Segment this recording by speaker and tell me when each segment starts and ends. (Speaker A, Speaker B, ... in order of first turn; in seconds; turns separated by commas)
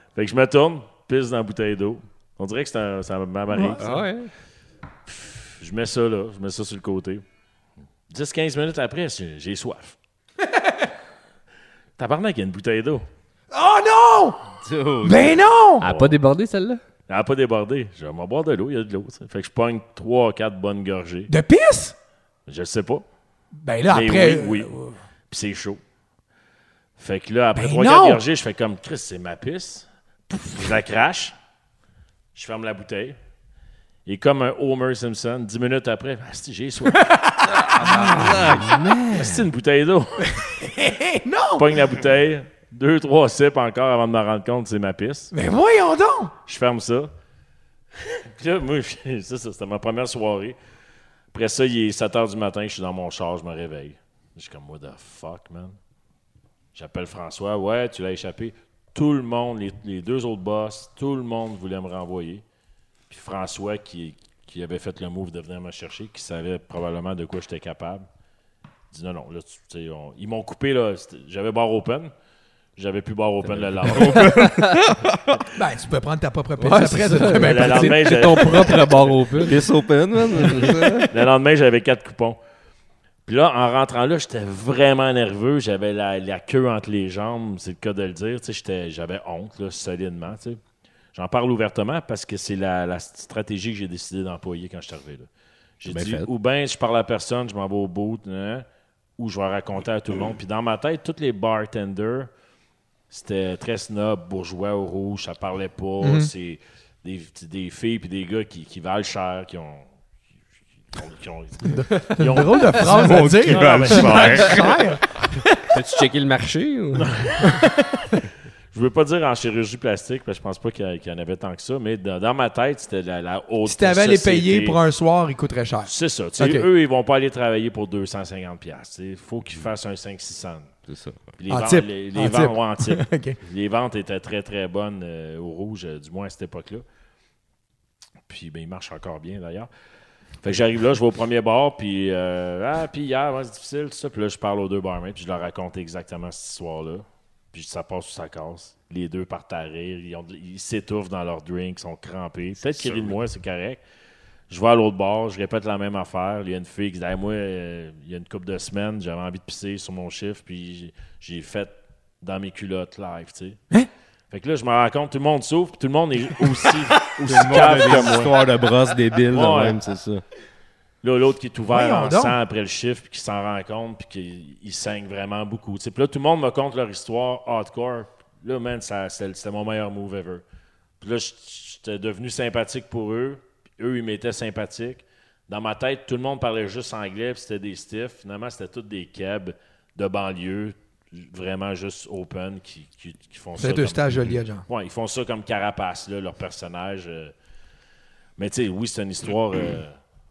Speaker A: 0.1-4.1, Speaker B: 3.5-3.8, Speaker C: 3.8-4.3, Speaker A: 5.1-7.2, Speaker A: 8.1-10.0, Speaker A: 12.0-13.1, Speaker B: 13.5-14.5, Speaker D: 14.6-15.3, Speaker B: 15.0-15.8, Speaker C: 15.8-16.8, Speaker A: 15.8-16.1, Speaker A: 17.1-21.3, Speaker B: 21.3-21.9, Speaker A: 22.5-23.1, Speaker B: 23.6-25.0, Speaker A: 23.9-24.7, Speaker A: 25.3-25.8, Speaker A: 27.0-31.3, Speaker B: 27.5-28.2, Speaker A: 32.3-33.2, Speaker A: 34.0-37.1, Speaker B: 36.9-38.6, Speaker C: 37.8-39.3, Speaker D: 37.9-38.9, Speaker A: 38.1-38.5, Speaker A: 39.1-40.4, Speaker B: 40.4-41.7, Speaker A: 41.6-45.3, Speaker B: 45.3-46.3, Speaker A: 46.5-47.1, Speaker A: 48.0-50.6, Speaker A: 51.3-55.8, Speaker A: 56.7-62.4, Speaker A: 63.1-68.0, Speaker A: 68.9-72.1, Speaker A: 72.8-74.4, Speaker D: 73.5-75.4, Speaker B: 75.5-78.7, Speaker C: 76.6-79.6, Speaker A: 77.3-79.4, Speaker D: 79.4-81.1, Speaker C: 80.4-81.0, Speaker A: 81.1-82.4, Speaker A: 83.2-90.6, Speaker A: 91.1-95.3, Speaker A: 95.8-98.6, Speaker D: 95.8-96.3, Speaker A: 99.2-102.3, Speaker A: 103.1-109.9, Speaker B: 106.0-106.3, Speaker A: 110.9-114.7, Speaker B: 111.6-115.7, Speaker D: 112.9-114.8, Speaker C: 115.7-117.3, Speaker A: 117.0-117.4, Speaker B: 117.4-118.2, Speaker A: 118.7-124.8, Speaker B: 123.7-126.7, Speaker A: 125.9-130.7, Speaker D: 130.9-131.2, Speaker A: 131.4-136.8, Speaker B: 131.5-133.4, Speaker A: 138.2-139.7, Speaker A: 140.4-153.8, Speaker D: 152.6-153.1, Speaker A: 154.5-163.6, Speaker A: 164.3-168.5, Speaker D: 167.2-170.2, Speaker A: 169.3-169.8, Speaker A: 171.0-180.4, Speaker B: 171.7-172.4, Speaker A: 181.0-197.3, Speaker B: 193.6-194.6, Speaker A: 198.4-199.9